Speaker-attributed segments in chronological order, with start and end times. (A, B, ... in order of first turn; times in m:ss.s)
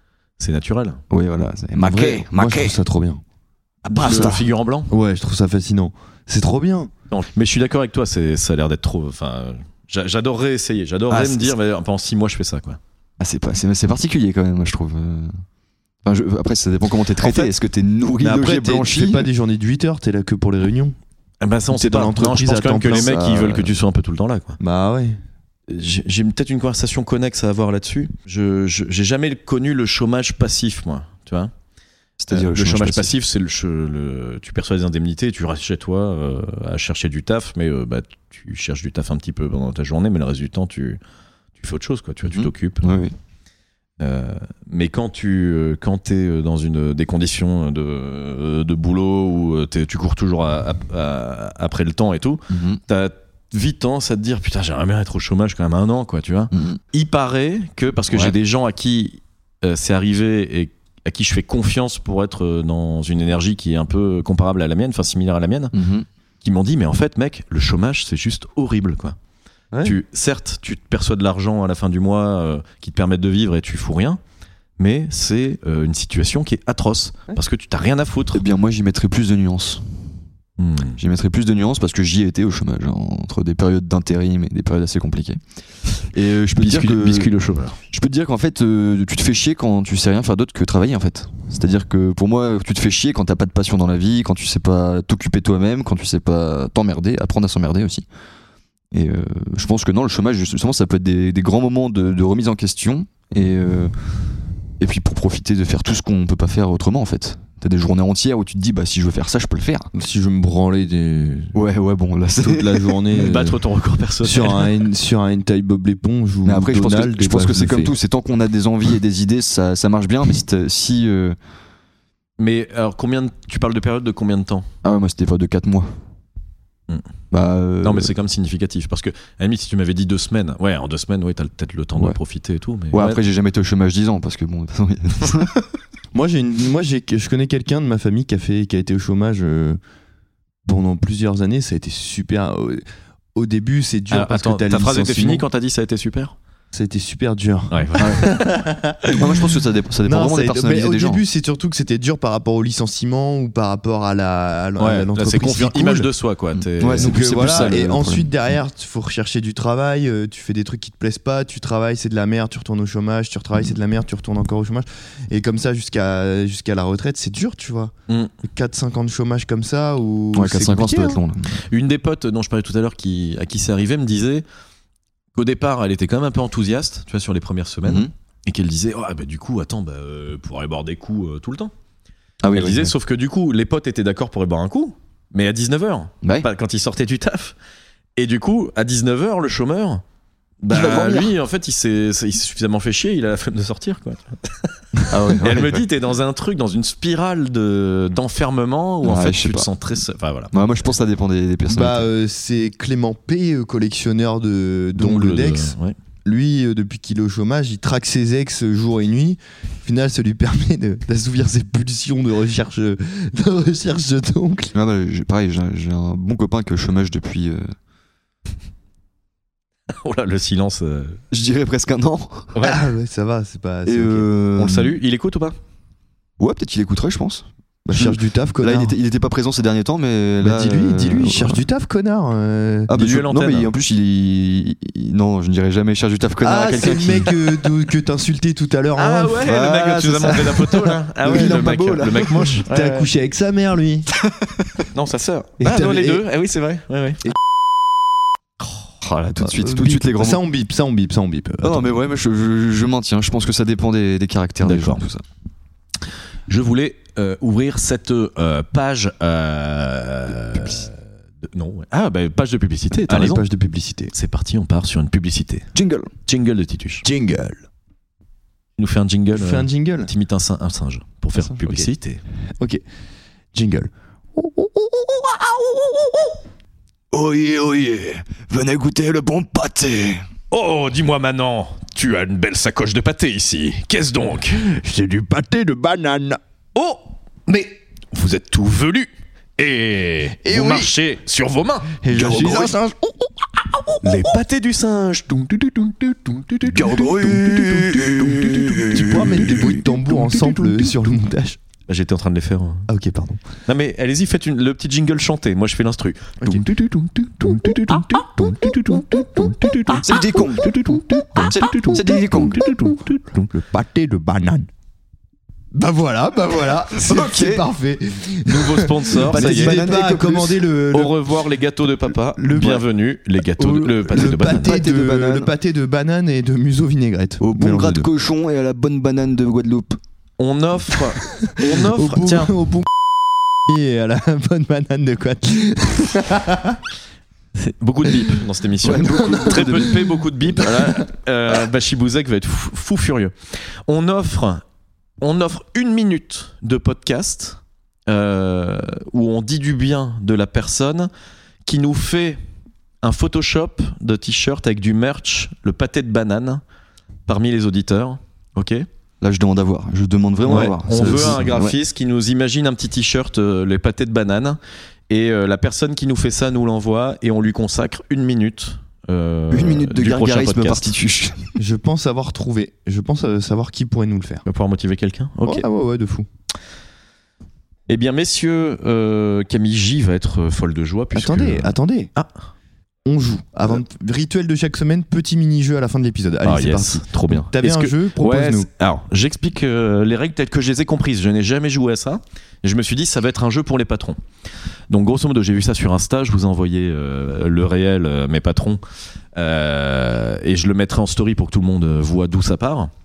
0:00.4-0:01.0 A
0:01.1-0:02.8 B
0:01.8-0:03.2 C
0:03.8-0:04.4 B
0:03.9-0:04.9 A
0:04.0-0:04.4 C
0:04.9-0:06.9 C
0:07.1-0:12.8 A
0:11.1-0:11.5 B
0:13.2-0:15.4 B
0:16.0-0:19.3 B
0:17.2-0:17.5 A
0:18.2-0:21.0 C
0:21.4-0:24.6 A
0:21.7-0:23.2 C
0:22.9-0:23.7 B
0:24.6-0:25.2 C
0:25.7-0:31.5 A
0:32.2-0:33.1 B
0:32.3-0:41.0 A
0:41.6-0:42.9 A
0:42.3-0:43.1 B
0:44.0-1:05.7 A
0:52.5-0:52.8 B
0:56.5-0:56.8 B
1:05.7-1:06.0 B
1:06.4-1:09.2 A
1:09.8-1:14.2 A
1:14.8-1:18.4 A
1:18.3-1:20.0 B
1:20.6-1:21.0 A
1:21.0-1:25.4 B
1:26.0-1:27.3 B
1:26.6-1:27.8 A
1:27.8-1:38.0 B
1:38.9-1:43.9 B
1:44.8-1:49.9 B
1:49.9-1:51.5 C
1:51.5-1:53.0 B
1:52.4-1:53.6 C
1:53.1-1:54.7 A
1:54.2-1:57.9 C
1:56.4-2:01.4 B
2:02.4-2:04.7 A
2:04.8-2:05.9 B
2:07.3-2:08.1 B
2:07.8-2:13.2 A
2:12.9-2:15.7 B
2:16.1-2:19.8 C
2:20.6-2:22.8 C
2:23.3-2:25.4 C
2:24.1-2:26.4 A
2:26.7-2:29.4 C
2:27.7-2:28.2 A
2:28.0-2:28.3 B
2:29.1-2:31.2 B
2:30.0-2:36.1 C
2:34.8-2:37.8 A
2:36.6-2:38.3 B
2:37.0-2:51.2 C
2:50.3-2:51.6 B
2:51.7-2:54.4 A
2:55.3-3:01.7 A
2:57.8-2:58.1 B
3:02.4-3:02.9 B
3:02.5-3:07.5 A
3:08.2-3:10.0 A
3:10.6-3:14.7 A
3:10.7-3:11.3 B
3:15.1-3:15.8 B
3:15.4-3:20.5 A
3:19.0-3:19.7 B
3:20.5-3:22.1 B
3:21.7-3:34.7 C
3:25.0-3:25.9 A
3:34.7-3:37.7 B
3:39.9-3:41.2 A
3:41.3-3:42.5 B
3:42.5-3:42.8 A
3:42.6-3:44.3 C
3:43.8-3:44.9 B
3:44.6-3:45.6 A
3:46.4-3:51.6 B
3:47.8-3:48.9 C
3:50.4-3:52.9 C
3:52.9-3:57.3 B
3:52.9-3:53.7 A
3:56.4-3:59.4 C
3:59.0-4:03.0 A
3:59.4-4:00.6 B
4:00.6-4:01.8 C
4:01.3-4:02.6 B
4:02.7-4:04.1 C
4:04.2-4:04.6 B
4:04.9-4:07.2 A
4:05.6-4:06.2 C
4:09.0-4:10.4 B
4:09.4-4:11.9 C
4:11.6-4:15.2 B
4:14.6-4:15.0 A
4:16.5-4:23.4 A
4:23.1-4:24.1 C
4:24.1-4:25.7 A
4:25.7-4:26.1 B
4:26.2-4:27.0 A
4:27.0-4:27.6 C
4:28.8-4:32.2 A
4:29.3-4:30.1 C
4:31.4-4:31.9 C
4:33.5-4:36.4 C
4:37.1-4:40.2 B
4:40.5-4:44.8 A
4:44.7-4:46.4 C
4:46.7-4:51.9 A
4:50.4-4:50.9 C
4:52.0-4:52.8 B
4:52.0-4:53.1 C
4:54.0-5:00.9 A
4:56.7-4:59.8 B
4:56.8-4:57.6 C
4:58.9-5:01.6 C
5:01.9-5:02.9 A
5:02.9-5:03.4 C
5:03.7-5:13.2 A
5:06.4-5:06.7 C
5:07.4-5:10.0 C
5:10.0-5:12.7 B
5:10.6-5:14.7 C
5:15.7-5:21.4 C
5:16.9-5:17.6 B
5:18.5-5:19.8 A
5:19.3-5:20.6 B
5:20.9-5:24.7 A
5:22.4-5:22.8 C
5:22.6-5:22.8 B
5:23.6-5:25.5 B
5:23.7-5:28.1 C
5:27.4-5:30.0 B
5:30.4-5:32.5 A
5:31.4-5:32.9 C
5:33.7-5:36.8 C
5:37.5-5:44.6 A
5:38.8-5:40.7 B
5:39.2-5:39.6 C
5:45.2-5:51.1 A
5:51.6-5:52.4 A
5:53.0-5:56.6 A
5:57.3-5:58.9 A
5:59.2-6:01.8 B
6:00.4-6:10.9 A
6:09.5-6:11.6 B
6:11.6-6:14.4 C
6:14.4-6:15.6 A
6:15.4-6:16.2 C
6:17.9-6:22.3 A
6:21.1-6:22.1 C
6:23.0-6:28.7 C
6:26.4-6:34.2 A
6:34.9-6:38.8 A
6:39.3-6:42.9 A